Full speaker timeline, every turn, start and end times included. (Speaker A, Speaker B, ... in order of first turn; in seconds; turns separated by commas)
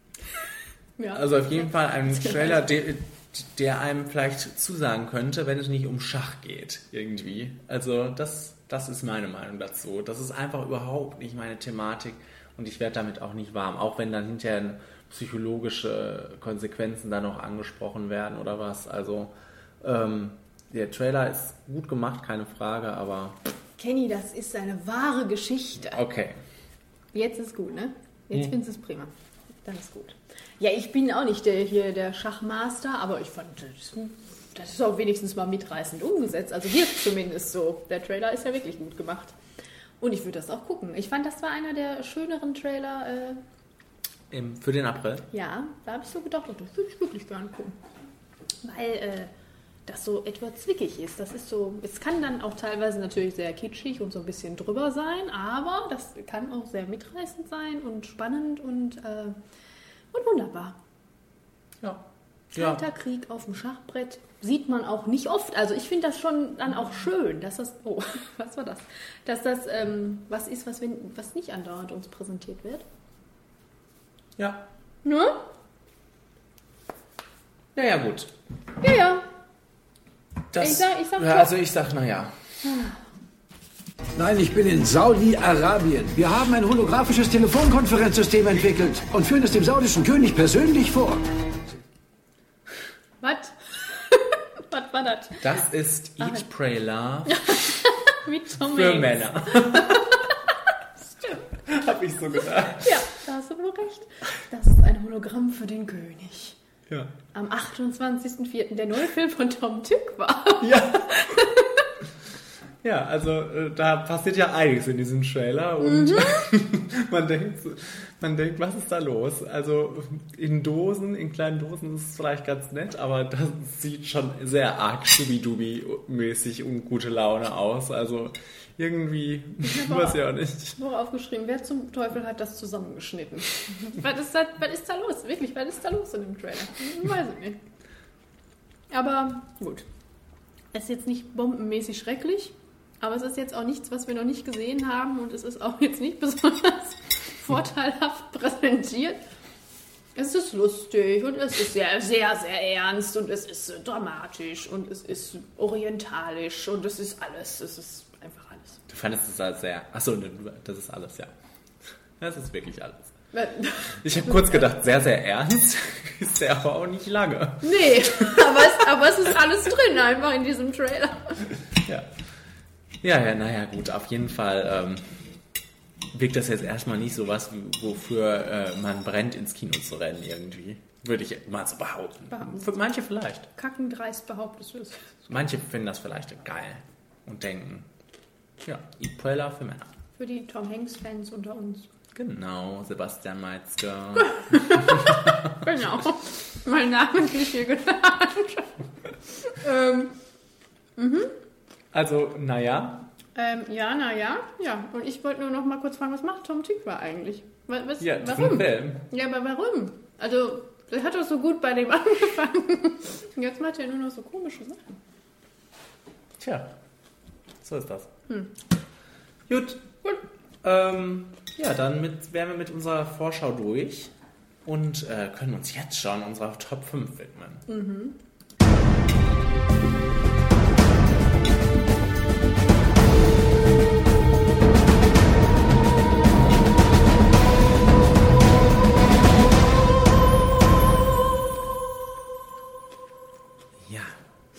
Speaker A: 1.0-2.6, Speaker B: 1.1-23.4, Speaker A: 23.8-26.0, Speaker B: 25.9-26.4, Speaker A: 27.1-29.1, Speaker A: 29.6-39.4, Speaker A: 40.0-43.4, Speaker B: 44.3-45.3, Speaker A: 45.3-47.8, Speaker A: 48.6-49.3, Speaker A: 49.9-59.4, Speaker A: 60.1-60.8, Speaker B: 62.5-62.8, Speaker A: 62.6-72.8, Speaker B: 74.4-74.7, Speaker A: 75.0-75.4, Speaker B: 77.8-78.3, Speaker A: 78.8-79.3, Speaker B: 80.5-82.3, Speaker A: 80.6-81.5, Speaker A: 82.6-83.0, Speaker C: 84.2-91.2, Speaker A: 93.2-95.6, Speaker B: 95.4-97.7, Speaker A: 97.3-100.3, Speaker B: 98.6-100.1, Speaker A: 101.0-101.4, Speaker B: 101.6-103.1, Speaker A: 102.8-106.6, Speaker B: 106.9-107.1, Speaker A: 107.3-111.7, Speaker B: 110.6-111.3, Speaker B: 112.8-130.8, Speaker A: 115.8-116.4, Speaker A: 129.6-137.6, Speaker A: 138.9-139.9, Speaker A: 140.7-149.2, Speaker A: 150.2-158.8, Speaker B: 158.9-161.3, Speaker B: 162.2-163.1, Speaker A: 163.3-164.7, Speaker B: 164.0-168.7, Speaker A: 167.6-171.4, Speaker B: 173.0-175.1, Speaker B: 176.1-183.5, Speaker A: 182.3-182.7, Speaker A: 183.6-185.3, Speaker B: 185.3-187.9, Speaker B: 188.6-189.9, Speaker A: 190.2-191.9, Speaker B: 192.1-195.5, Speaker A: 194.3-198.8, Speaker A: 199.4-200.2, Speaker A: 201.0-201.3, Speaker B: 201.9-203.1, Speaker A: 203.3-215.0, Speaker B: 208.0-209.1, Speaker B: 216.4-216.7, Speaker B: 217.6-218.1, Speaker B: 219.5-219.9, Speaker B: 220.6-224.1, Speaker B: 224.7-227.7, Speaker A: 227.7-228.2, Speaker B: 243.8-244.2